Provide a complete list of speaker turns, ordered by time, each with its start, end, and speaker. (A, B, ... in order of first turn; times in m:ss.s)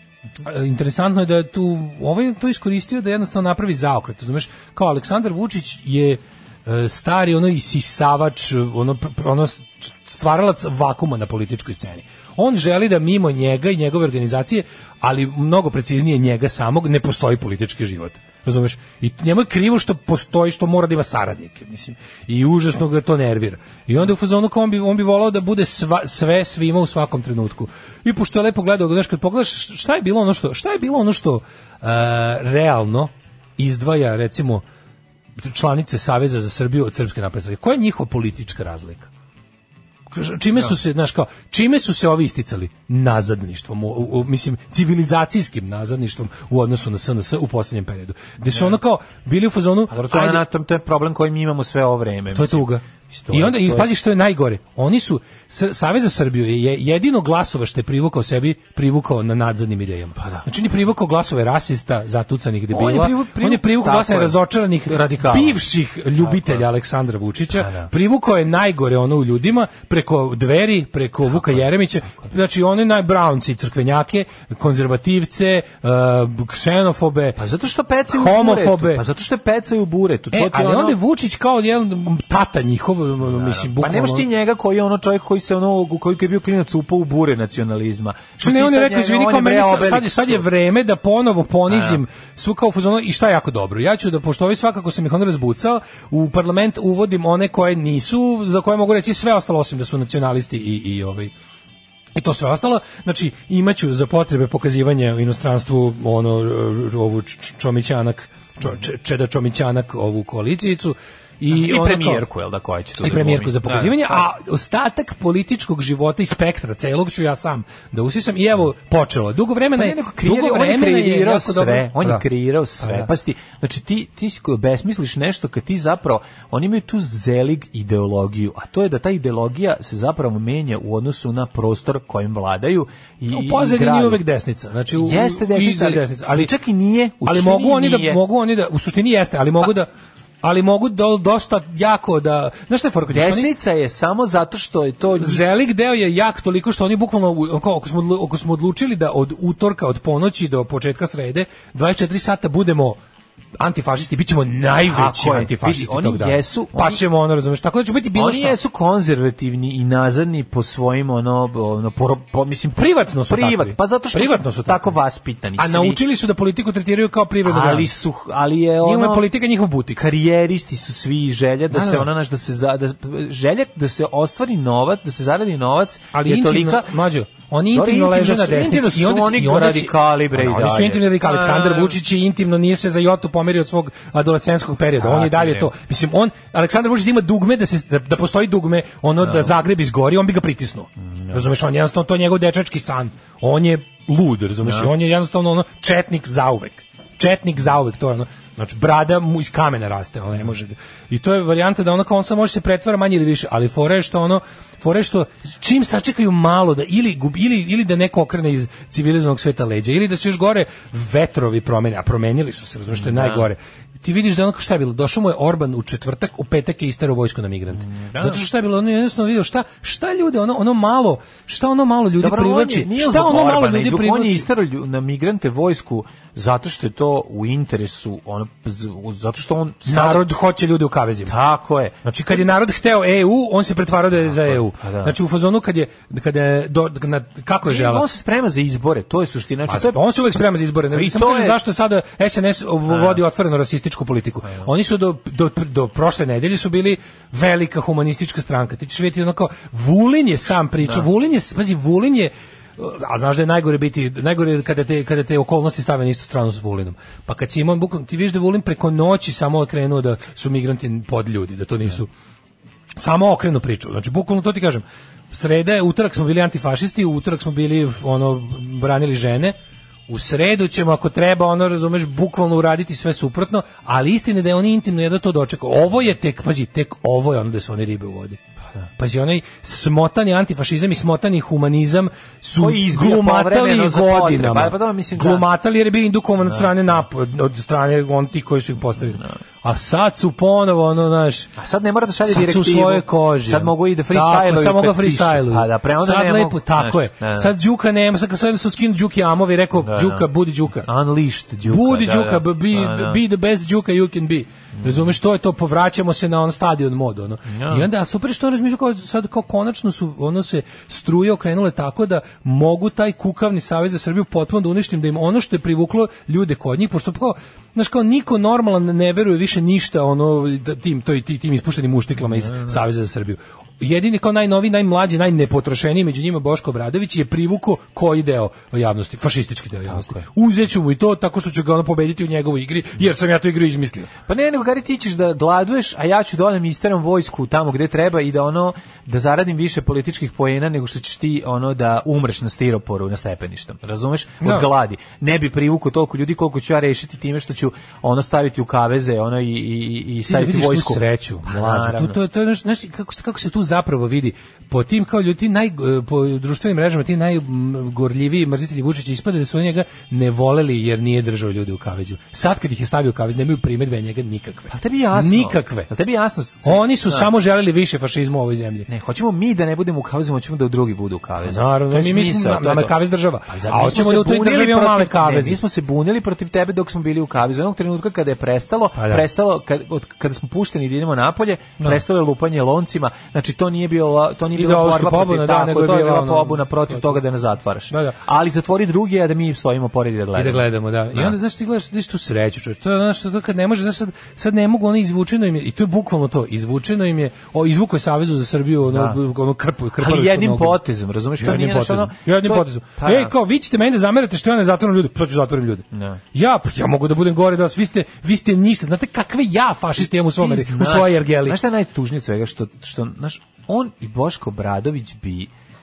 0:00.4-0:34.6 A
0:35.4-0:39.1 A
0:40.1-0:50.4 A
0:49.9-0:53.9 B
0:52.3-1:17.4 A
1:00.2-1:00.4 B
1:02.7-1:05.6 B
1:06.2-1:06.6 B
1:07.5-1:07.9 B
1:11.3-1:11.6 B
1:17.4-1:21.0 B
1:18.1-1:19.0 A
1:20.3-1:24.3 A
1:23.2-1:30.4 B
1:28.4-1:41.3 A
1:31.7-1:32.0 B
1:42.1-1:52.2 A
1:51.5-1:54.2 B
1:53.0-2:02.2 A
1:59.7-2:14.2 B
2:02.8-2:03.1 A
2:13.3-2:16.5 A
2:14.9-2:18.2 B
2:17.2-2:19.9 A
2:20.4-2:23.5 A
2:23.1-2:25.4 B
2:25.2-2:33.0 A
2:33.6-2:38.6 A
2:34.8-2:37.0 B
2:38.1-2:46.0 B
2:42.8-2:45.0 A
2:45.6-2:47.9 A
2:47.4-2:49.3 B
2:48.8-2:50.0 A
2:50.0-2:56.9 B
2:51.7-2:52.1 A
2:56.1-3:44.4 A
2:57.7-3:02.0 B
3:05.0-3:05.7 B
3:09.2-3:09.5 B
3:11.1-3:11.5 B
3:14.6-3:14.9 B
3:32.9-3:33.5 B
3:37.8-3:38.4 B
3:42.2-3:50.3 B
3:49.8-3:51.4 A
3:51.3-3:52.4 B
3:52.0-3:58.1 A
3:54.3-3:55.2 B
3:57.6-4:00.0 B
3:59.7-4:22.1 A
4:00.9-4:01.6 B
4:02.9-4:03.2 B
4:04.4-4:04.7 B
4:23.0-4:29.6 A
4:30.1-4:38.4 A
4:39.0-4:51.5 A
4:42.6-4:45.5 B
4:46.4-4:46.7 B
4:49.0-4:49.4 B
4:51.6-4:57.5 B
4:52.3-5:00.9 A
4:59.8-5:03.2 B
5:01.7-5:34.1 A
5:04.7-5:05.1 B
5:07.5-5:07.9 B
5:22.4-5:22.8 B
5:29.9-5:30.2 B
5:34.3-5:52.2 B
5:44.4-5:44.7 A
5:50.3-6:05.9 A
6:04.7-6:07.3 B
6:06.6-6:08.9 A
6:08.9-6:31.4 B
6:11.4-6:15.6 A
6:18.9-6:19.3 A
6:24.5-6:27.2 A
6:27.9-6:28.2 A
6:30.4-6:40.8 A
6:38.8-6:39.2 B
6:40.0-6:43.3 B
6:41.4-6:51.6 A
6:45.9-6:46.2 B
6:50.0-6:55.5 B